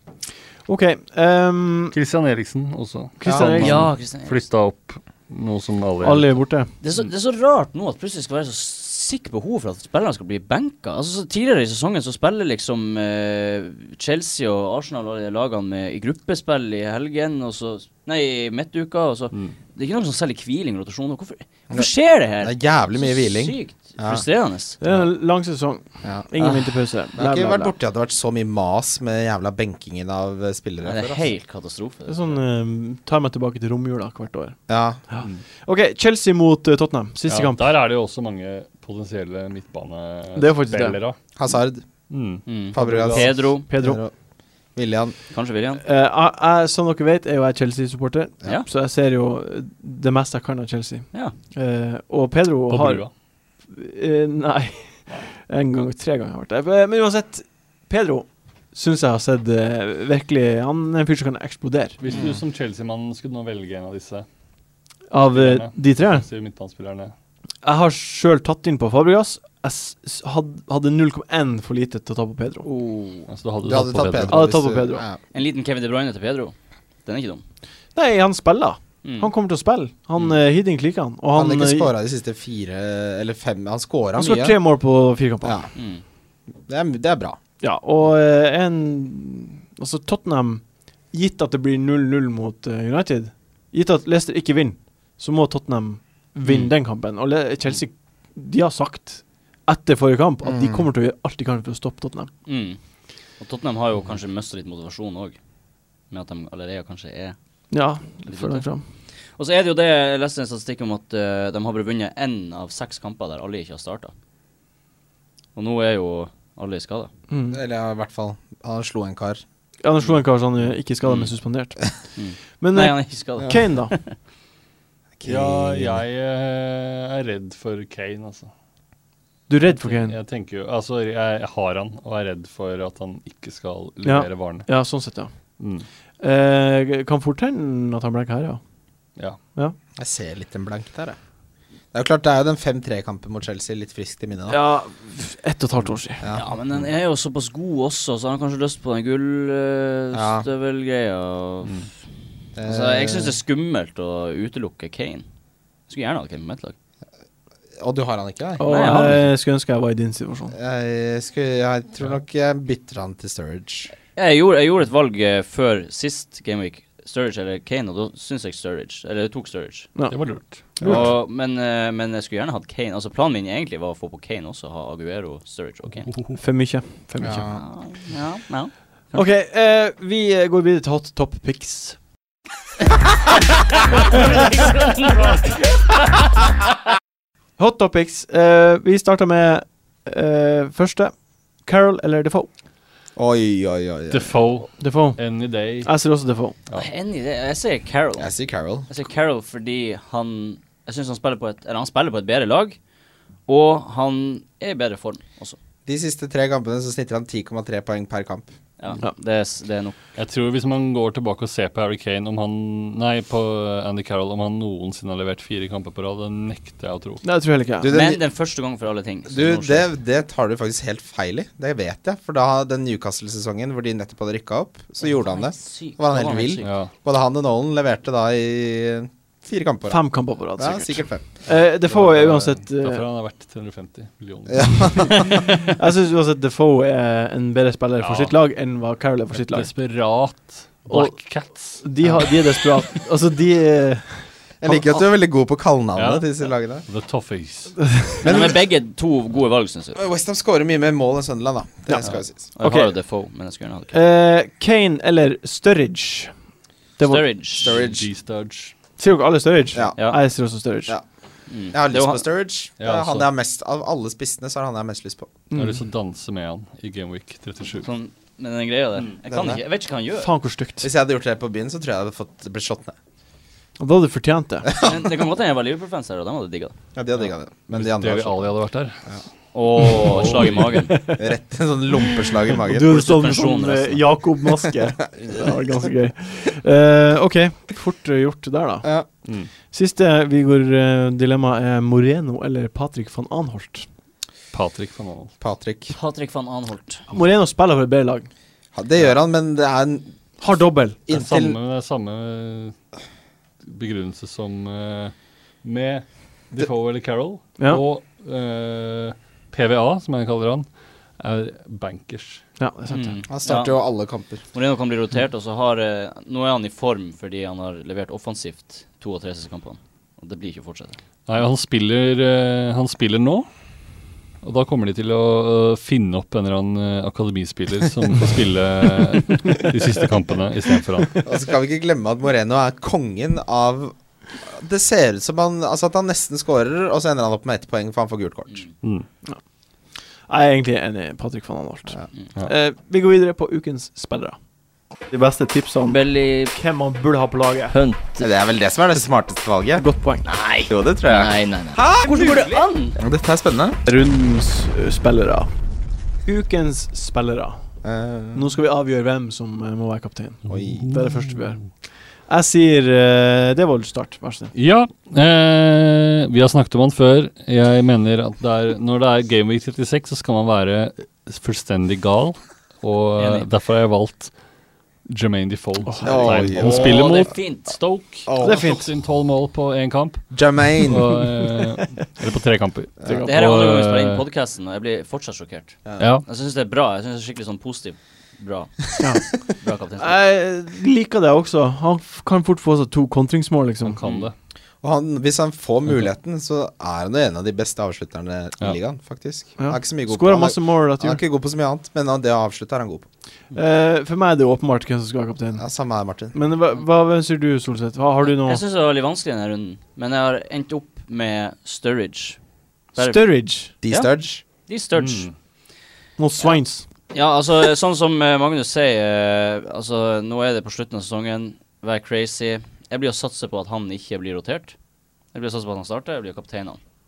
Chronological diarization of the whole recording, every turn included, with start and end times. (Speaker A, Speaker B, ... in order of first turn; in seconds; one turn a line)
Speaker A: 0.7-1.9
Speaker B: 1.9-6.4
Speaker A: 3.2-3.9
Speaker C: 3.2-3.6
Speaker D: 3.5-4.4
Speaker A: 6.0-6.7
Speaker D: 6.8-24.8
Speaker C: 22.4-24.2
Speaker A: 24.8-27.7
Speaker B: 24.8-25.1
Speaker C: 27.1-31.2
Speaker D: 30.8-32.4
Speaker A: 32.1-34.6
Speaker C: 34.7-35.0
Speaker A: 35.1-37.6
Speaker B: 37.3-41.2
Speaker A: 40.4-41.0
Speaker C: 41.4-41.9
Speaker B: 42.1-42.9
Speaker D: 42.5-43.7
Speaker C: 42.7-44.1
Speaker A: 42.8-44.0
Speaker C: 44.7-45.1
Speaker D: 45.3-45.8
Speaker A: 45.8-53.1
Speaker B: 52.7-53.1
Speaker A: 53.7-62.0
Speaker B: 62.0-64.2
Speaker A: 65.1-66.2
Speaker B: 65.3-67.1
Speaker A: 67.6-72.7
Speaker D: 72.6-73.3
Speaker B: 73.3-74.5
Speaker C: 73.6-75.2
Speaker A: 74.3-75.0
Speaker D: 75.3-76.5
Speaker D: 77.0-77.4
Speaker A: 77.9-81.9
Speaker D: 79.0-79.3
Speaker C: 81.3-84.6
Speaker A: 84.2-85.6
Speaker C: 85.4-85.7
Speaker D: 85.7-86.0
Speaker C: 86.7-87.4
Speaker A: 87.6-102.3
Speaker D: 96.4-96.7
Speaker C: 100.4-100.9
Speaker D: 102.5-102.8
Speaker D: 103.4-105.4
Speaker D: 106.1-107.4
Speaker A: 107.7-108.8
Speaker D: 108.2-108.6
Speaker D: 109.4-114.1
Speaker D: 115.5-117.1
Speaker A: 117.3-117.6
Speaker C: 117.5-119.4
Speaker A: 119.8-121.8
Speaker D: 121.0-121.3
Speaker D: 122.2-124.2
Speaker A: 122.6-123.9
Speaker C: 125.2-126.0
Speaker B: 125.2-128.5
Speaker A: 129.5-130.2
Speaker B: 129.7-134.7
Speaker A: 134.0-135.3
Speaker B: 135.6-135.9
Speaker A: 136.2-138.6
Speaker C: 139.9-141.2
Speaker C: 141.9-144.6
Speaker A: 144.5-146.2
Speaker D: 146.3-151.8
Speaker C: 150.1-150.4
Speaker C: 152.6-153.4
Speaker D: 152.6-155.2
Speaker D: 155.9-156.7
Speaker C: 157.8-159.2
Speaker A: 158.6-160.6
Speaker D: 158.6-159.2
Speaker C: 160.5-163.9
Speaker D: 164.2-169.9
Speaker B: 170.1-171.1
Speaker D: 170.8-176.1
Speaker B: 176.1-176.4
Speaker A: 176.4-177.5
Speaker C: 177.2-177.6
Speaker D: 177.5-179.2
Speaker A: 179.1-182.0
Speaker D: 184.6-184.9
Speaker A: 187.6-192.5
Speaker C: 193.2-194.3
Speaker B: 194.1-195.9
Speaker A: 194.8-195.2
Speaker A: 195.8-196.5
Speaker D: 196.7-198.3
Speaker C: 198.2-198.9
Speaker D: 198.9-202.8
Speaker D: 203.5-205.6
Speaker C: 205.9-208.5
Speaker D: 208.8-209.9
Speaker B: 210.2-217.2
Speaker A: 217.2-217.9
Speaker C: 217.8-218.2
Speaker D: 217.9-219.9
Speaker C: 219.3-231.3
Speaker D: 225.0-226.7
Speaker B: 226.6-226.9
Speaker A: 229.9-233.0
Speaker B: 231.5-235.3
Speaker C: 234.5-235.5
Speaker A: 235.6-239.7
Speaker B: 238.0-238.4
Speaker B: 239.3-242.8
Speaker A: 240.9-245.0
Speaker C: 244.6-246.8
Speaker B: 245.9-247.9
Speaker D: 248.2-250.0
Speaker C: 248.2-248.6
Speaker C: 249.9-252.4
Speaker A: 251.9-252.9
Speaker D: 252.0-254.0
Speaker A: 253.9-256.3
Speaker A: 257.0-257.3
Speaker D: 257.0-257.8
Speaker C: 257.6-258.1
Speaker B: 257.6-258.7
Speaker A: 259.0-260.9
Speaker D: 261.5-262.2
Speaker C: 261.7-265.3
Speaker B: 262.8-263.3
Speaker A: 265.5-265.8
Speaker B: 265.5-267.9
Speaker D: 267.8-270.3
Speaker C: 269.3-269.6
Speaker A: 270.1-270.9
Speaker C: 270.8-272.9
Speaker A: 273.8-274.7
Speaker C: 274.7-275.1
Speaker D: 274.8-276.7
Speaker C: 276.9-278.5
Speaker B: 277.7-279.1
Speaker D: 279.5-280.9
Speaker B: 279.8-280.8
Speaker A: 280.7-281.3
Speaker C: 281.2-283.1
Speaker A: 282.6-288.9
Speaker D: 282.8-284.1
Speaker B: 289.2-289.5
Speaker A: 289.7-293.9
Speaker B: 294.5-295.3
Speaker C: 295.4-295.9
Speaker D: 295.9-297.0
Speaker A: 297.1-298.3
Speaker C: 298.7-300.1
Speaker A: 300.4-301.0
Speaker C: 301.1-301.6
Speaker B: 301.1-302.8
Speaker B: 303.6-310.7
Speaker B: 311.2-312.4
Speaker A: 312.6-313.2
Speaker D: 312.9-313.8
Speaker C: 313.3-314.4
Speaker D: 314.5-321.0
Speaker B: 321.2-323.5
Speaker B: 324.4-331.2
Speaker C: 331.2-338.6
Speaker A: 340.3-344.4
Speaker A: 345.1-347.7
Speaker D: 345.9-346.5
Speaker D: 347.7-348.2
Speaker C: 348.2-349.9
Speaker A: 349.8-350.2
Speaker D: 350.2-353.0
Speaker C: 350.7-352.4
Speaker A: 352.0-352.5
Speaker C: 353.0-353.8
Speaker A: 353.9-355.5
Speaker A: 356.2-357.6
Speaker C: 357.8-358.5
Speaker A: 358.4-364.5
Speaker C: 360.5-360.9
Speaker B: 360.5-361.4
Speaker B: 364.5-374.3
Speaker D: 373.2-373.4
Speaker B: 375.1-384.2
Speaker A: 375.9-376.2
Speaker C: 376.0-377.0
Speaker D: 376.4-377.8
Speaker C: 378.3-378.6
Speaker A: 378.4-378.9
Speaker C: 380.3-381.2
Speaker A: 383.1-383.4
Speaker D: 383.1-390.2
Speaker B: 386.0-386.2
Speaker A: 389.0-389.3
Speaker A: 390.0-394.0
Speaker B: 393.8-394.3
Speaker D: 394.0-394.3
Speaker C: 394.8-403.0
Speaker A: 399.6-401.2
Speaker A: 403.5-405.6
Speaker C: 405.6-406.4
Speaker A: 406.3-408.6
Speaker D: 408.2-412.4
Speaker A: 413.0-413.7
Speaker D: 413.0-414.1
Speaker C: 413.8-414.4
Speaker D: 414.6-415.3
Speaker B: 414.9-415.3
Speaker A: 416.2-416.9
Speaker D: 417.1-424.8
Speaker D: 425.3-426.8